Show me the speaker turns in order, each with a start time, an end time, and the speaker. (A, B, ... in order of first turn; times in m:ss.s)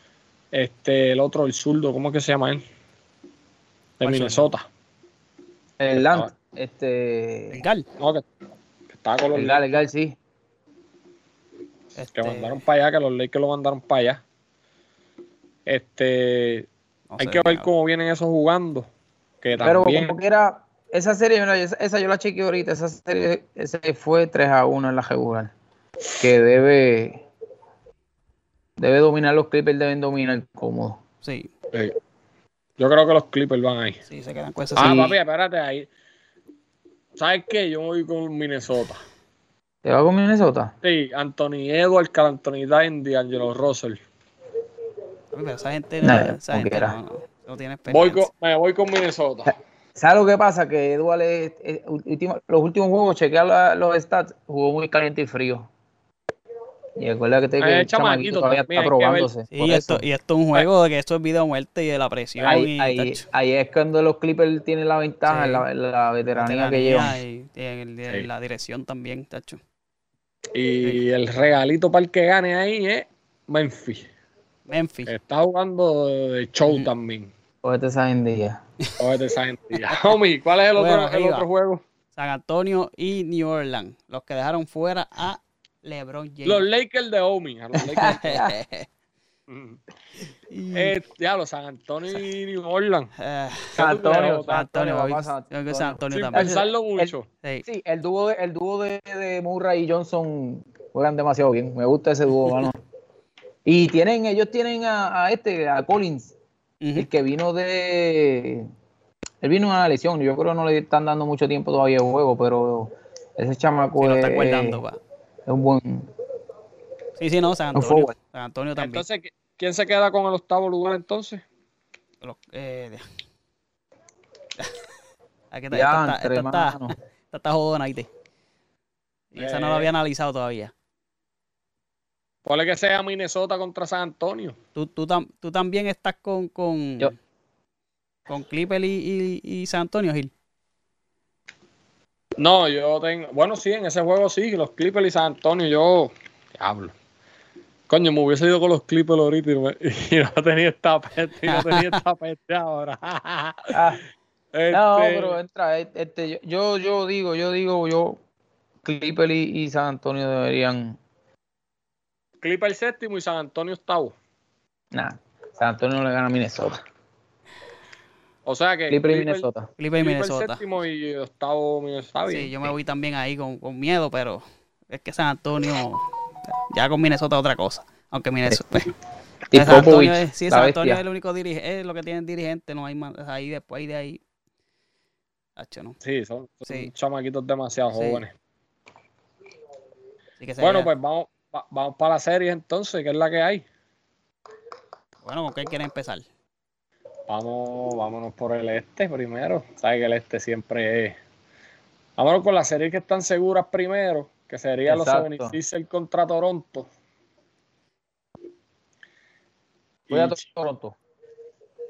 0:00.5-0:02.6 A
0:04.0-0:04.6 A
0:04.0-0:04.5 B
0:05.8-0:07.6 C
0:06.0-0:06.3 A
0:07.5-0:07.8 B
0:08.0-0:08.2 A
0:08.9-0:09.7 A
0:09.3-0:10.2 C
0:12.0-0:12.6 B
0:12.1-0:14.2 A
0:15.6-0:16.7 A
0:17.1-0:17.7 B
0:17.2-0:18.9 A
0:19.4-0:20.1 A
0:19.6-0:25.5 C
0:26.2-0:27.2 C
0:28.8-0:31.0 C
0:31.2-0:31.5 B
0:32.8-0:34.0 A
0:34.1-0:35.0 B
0:34.8-0:35.9 A
0:34.8-0:35.2 C
0:37.2-0:39.0 A
0:39.8-0:40.7 C
0:40.8-0:44.0 A
0:45.3-0:48.3 B
0:46.0-0:47.0 C
0:47.9-0:49.5 A
0:50.0-0:55.7 C
0:57.0-1:00.0 C
0:57.6-0:59.3 A
0:59.5-1:03.2 B
1:02.4-1:07.2 C
1:05.2-1:05.7 B
1:06.4-1:09.6 B
1:10.5-1:14.0 A
1:14.7-1:15.1 B
1:15.1-1:17.3 A
1:17.6-1:18.6 C
1:19.0-1:21.8 A
1:20.8-1:21.4 B
1:22.1-1:26.6 B
1:26.4-1:28.4 A
1:27.7-1:28.5 C
1:28.0-1:28.9 B
1:29.5-1:29.8 A
1:30.5-1:30.9 B
1:30.7-1:33.1 A
1:33.2-1:33.8 B
1:33.7-1:34.6 A
1:33.8-1:37.1 C
1:34.5-1:36.5 B
1:36.1-1:37.3 A
1:37.6-1:42.8 C
1:43.6-1:46.3 C
1:46.8-1:47.1 B
1:47.0-1:48.7 C
1:49.4-1:54.8 C
1:54.0-1:55.0 B
1:55.4-1:56.1 C
1:57.2-1:59.0 B
1:57.7-1:58.1 C
1:58.8-2:01.4 A
2:02.2-2:03.0 B
2:05.5-2:08.1 B
2:05.7-2:06.9 C
2:09.3-2:10.7 B
2:09.4-2:09.9 A
2:12.4-2:14.6 A
2:14.7-2:17.1 B
2:18.3-2:20.3 B
2:22.4-2:26.9 A
2:27.9-2:33.8 A
2:31.5-2:32.0 B
2:33.7-2:34.0 C
2:34.5-2:35.4 A
2:34.7-2:38.2 C
2:38.8-2:41.0 C
2:42.4-2:44.1 A
2:44.9-2:46.8 C
2:48.4-2:49.4 A
2:48.9-2:49.7 C
2:49.8-2:50.6 B
2:50.0-2:52.7 A
2:52.3-2:56.0 B
2:56.7-2:58.9 B
2:59.5-3:01.0 C
2:59.5-3:04.2 B
3:05.6-3:06.0 B
3:06.0-3:08.3 A
3:07.9-3:08.2 B
3:10.4-3:10.9 B
3:10.6-3:13.6 A
3:15.2-3:16.2 B
3:17.3-3:21.2 A
3:22.2-3:26.9 A
3:24.8-3:25.6 C
3:30.1-3:30.4 A
3:30.1-3:31.0 C